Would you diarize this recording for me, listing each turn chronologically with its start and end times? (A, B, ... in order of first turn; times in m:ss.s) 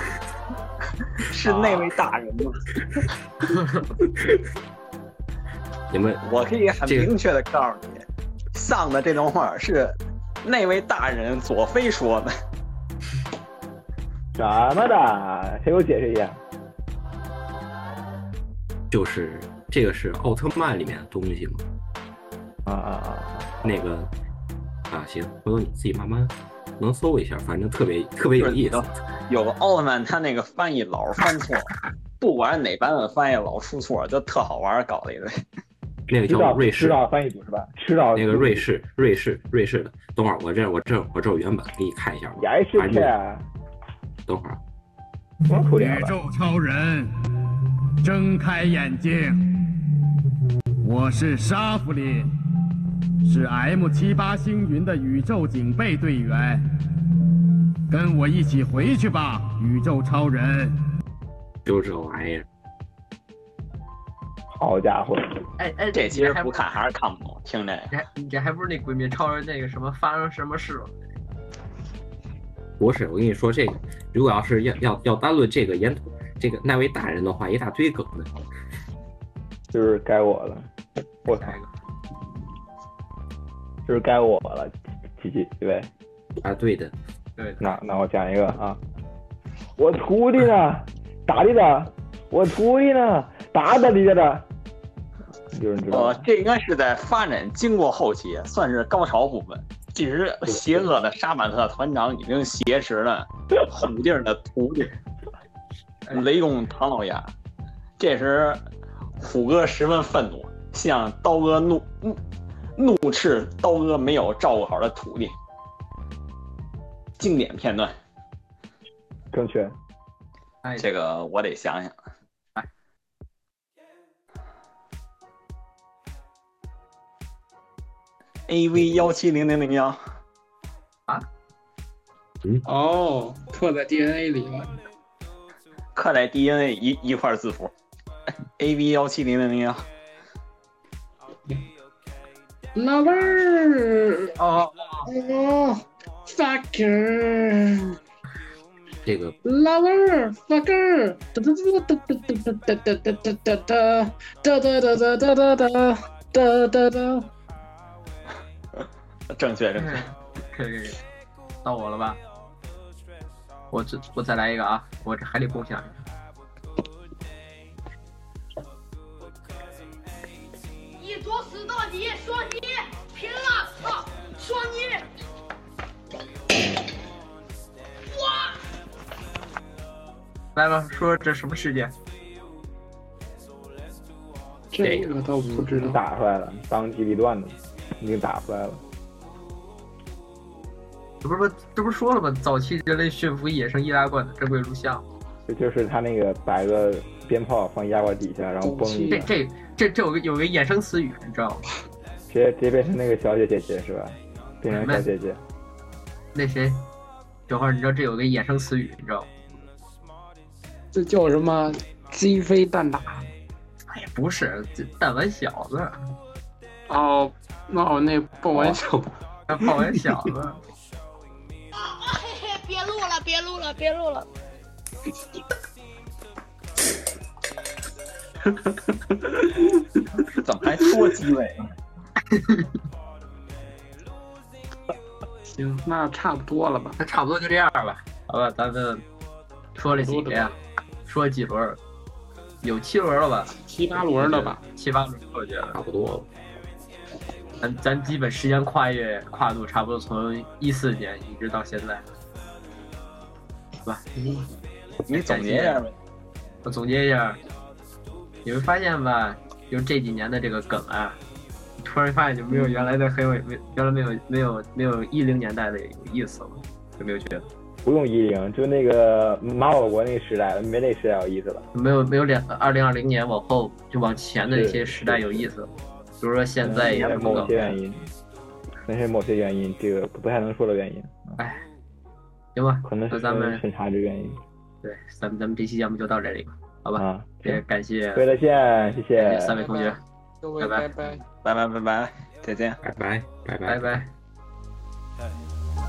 0:01.3-0:02.8 A
0:01.5-0:01.8 B
0:05.9-0:06.2 B
0:06.2-0:12.3 A
0:06.8-0:07.1 B
0:14.4-0:16.4 C
0:18.9-0:21.6 B
0:22.6-0:23.8 C
0:23.6-0:24.1 B
0:24.9-0:28.9 B
0:28.4-0:35.3 A
0:36.1-0:37.0 B
0:36.3-0:38.7 C
0:38.2-0:43.1 B
0:42.4-0:43.5 C
0:44.3-0:44.6 B
0:45.4-0:46.2 C
0:45.6-0:49.7 D
0:50.8-0:52.3 D
0:53.2-0:56.6 D
0:57.9-1:00.9 D
1:01.6-1:02.4 B
1:04.5-1:05.4 C
1:05.6-1:06.6 E
1:05.9-1:07.9 A
1:07.9-1:10.9 E
1:12.8-1:18.3 B
1:19.7-1:20.7 C
1:21.2-1:21.6 C
1:21.4-1:21.7 E
1:23.9-1:25.9 C
1:26.4-1:26.9 B
1:27.4-1:27.8 E
1:27.6-1:28.8 C
1:29.8-1:34.5 C
1:35.5-1:36.3 C
1:35.9-1:44.9 A
1:46.1-1:47.3 A
1:48.0-1:48.6 A
1:49.2-1:52.2 A
1:52.8-1:55.3 A
1:57.2-1:58.0 A
1:59.3-1:59.8 C
2:00.6-2:00.9 E
2:00.8-2:02.0 A
2:08.5-2:10.0 A
2:12.6-2:14.8 F
2:16.0-2:17.7 A
2:18.6-2:19.8 A
2:22.8-2:24.4 F
2:24.4-2:25.1 E
2:25.0-2:28.0 F
2:29.0-2:29.4 B
2:29.4-2:37.3 F
2:39.3-2:40.0 A
2:39.8-2:41.0 E
2:41.6-2:42.2 E
2:43.7-2:46.0 E
2:51.0-2:55.1 G
2:58.1-2:58.6 G
3:00.6-3:01.9 E
3:04.7-3:06.0 F
3:04.8-3:05.2 B
3:05.5-3:08.8 C
3:11.2-3:15.0 E
3:15.5-3:19.3 C
3:18.6-3:19.3 F
3:19.1-3:21.7 E
3:22.3-3:25.4 C
3:24.7-3:25.1 E
3:26.3-3:26.8 E
3:27.5-3:29.3 E
3:30.9-3:33.3 F
3:33.9-3:36.0 E
3:36.9-3:39.1 F
3:39.5-3:40.6 E
3:41.8-3:44.3 G
3:48.4-3:50.3 F
3:50.4-3:51.7 A
3:52.3-3:52.7 E
3:55.5-3:57.0 F
3:57.0-3:59.0 E
3:59.8-4:01.8 E
3:59.8-4:00.6 F
4:02.6-4:05.8 E
4:03.6-4:04.6 F
4:05.7-4:06.3 B
4:07.6-4:12.1 E
4:14.2-4:14.4 F
4:15.1-4:15.9 A
4:15.1-4:15.8 E
4:16.6-4:17.4 E
4:18.4-4:21.2 E
4:21.8-4:27.5 E
4:27.8-4:31.7 C
4:31.7-4:37.8 E
4:34.4-4:35.5 C
4:36.6-4:38.1 C
4:37.4-4:37.6 A
4:38.9-4:41.4 C
4:41.4-4:41.6 E
4:42.6-4:43.6 E
4:42.8-4:44.4 C
4:44.8-4:48.2 E
4:47.0-4:47.6 C
4:48.2-4:49.6 C
4:49.2-4:50.0 E
4:49.5-4:51.2 F
4:50.6-4:50.9 E
4:51.4-4:52.8 A
4:52.8-4:54.0 B
4:53.7-4:54.1 E